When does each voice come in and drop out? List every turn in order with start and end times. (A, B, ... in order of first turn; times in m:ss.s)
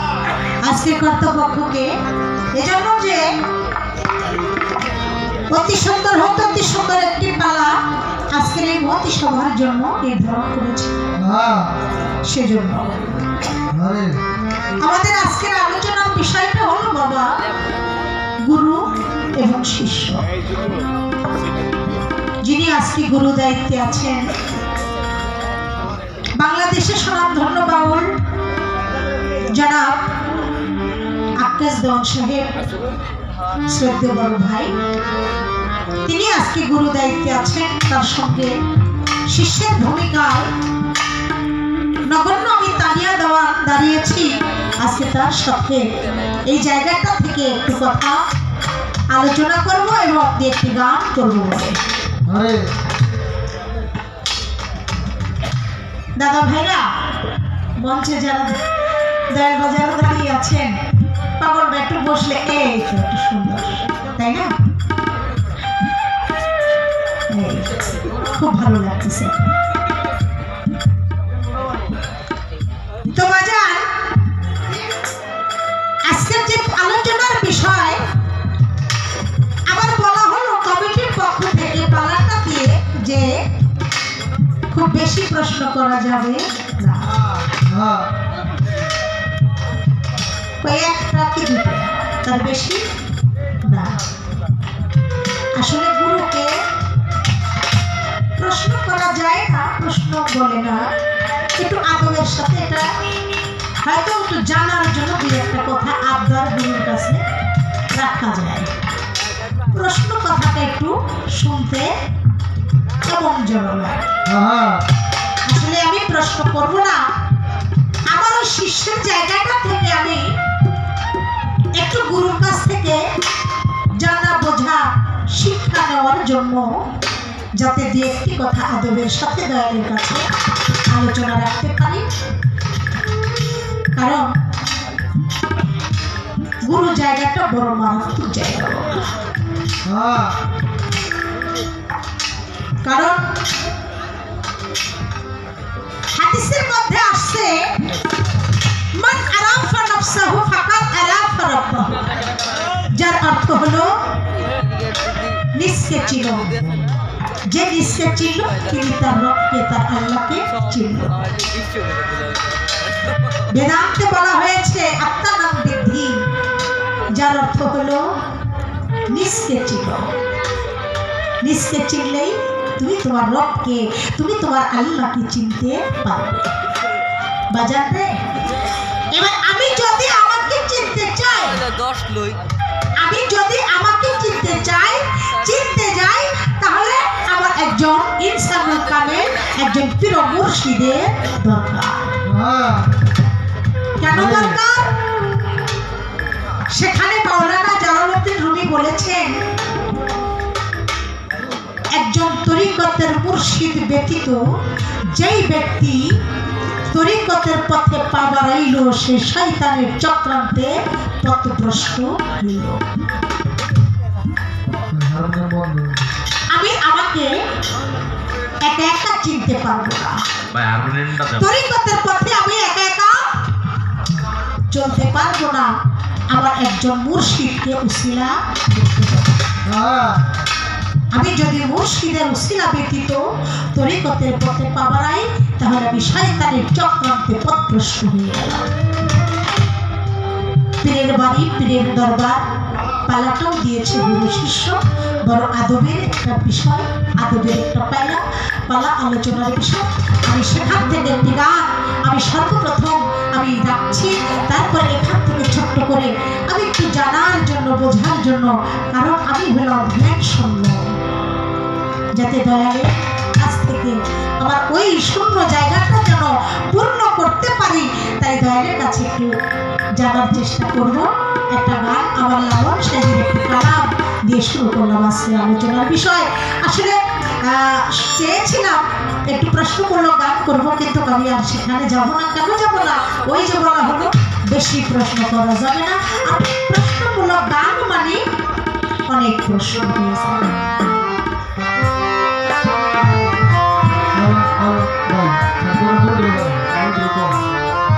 0:00.6-0:01.9 A
0:02.6-0:03.2 A
0:05.5-0:07.7 A
0:08.3-0:10.9 A
0:11.2-0:11.7 B
0:12.3-0:13.0 A
0:13.7-0:14.2 B
0:14.8-0:17.3 A
0:18.5-0:18.9 A
0:19.4-0:20.3 A
0:22.4-0:24.3 A
0:26.4-0:28.1 A
0:29.5-0:30.0 A
0:31.4-0:32.5 A
0:33.7-0:34.7 A
0:36.1-0:38.5 A
0:39.3-0:40.5 A
0:42.1-0:44.3 A
0:44.8-0:45.8 A
0:46.5-0:48.2 A
0:49.1-0:51.8 A
0:52.3-0:52.6 B
0:56.2-0:56.9 A
0:57.8-0:58.6 A
0:59.3-1:00.8 A
1:01.4-1:04.5 A
1:07.3-1:09.4 A
1:13.1-1:14.0 A
1:16.1-1:18.0 A
1:19.7-1:23.4 A
1:24.7-1:27.2 A
1:27.6-1:28.1 B
1:30.6-1:32.8 A
1:33.7-1:34.0 A
1:35.6-1:36.5 A
1:38.4-1:40.8 A
1:41.6-1:42.9 A
1:43.8-1:47.2 A
1:47.9-1:48.7 A
1:49.7-1:51.9 A
1:53.0-1:54.0 A
1:54.3-1:54.8 B
1:55.5-1:57.0 A
1:58.1-2:00.3 A
2:01.8-2:03.0 A
2:04.0-2:06.8 A
2:07.6-2:10.2 A
2:10.9-2:12.0 A
2:14.0-2:14.3 A
2:16.6-2:19.1 A
2:19.8-2:20.3 B
2:22.8-2:23.2 A
2:26.2-2:27.7 A
2:29.0-2:32.0 A
2:32.9-2:34.0 A
2:35.5-2:36.6 A
2:37.4-2:41.3 A
2:43.5-2:46.2 A
2:47.1-2:48.1 A
2:49.1-2:50.1 A
2:51.4-2:56.5 A
2:57.5-2:58.2 A
2:59.1-3:01.6 A
3:03.0-3:12.2 A
3:12.2-3:12.9 B
3:14.0-3:14.9 A
3:14.1-3:14.6 B
3:16.7-3:19.4 A
3:21.9-3:24.4 A
3:25.2-3:26.1 A
3:26.9-3:32.8 A
3:34.9-3:36.0 B
3:36.5-3:37.3 A
3:38.6-3:40.2 A
3:40.6-3:41.2 B
3:41.2-3:43.4 A
3:44.7-3:45.7 A
3:46.3-3:49.3 A
3:49.7-3:50.2 B
3:51.1-3:58.6 A
4:00.8-4:02.4 A
4:03.1-4:20.9 A
4:22.2-4:29.3 A
4:30.0-4:48.2 A
4:49.1-4:50.6 A
4:54.1-4:57.4 B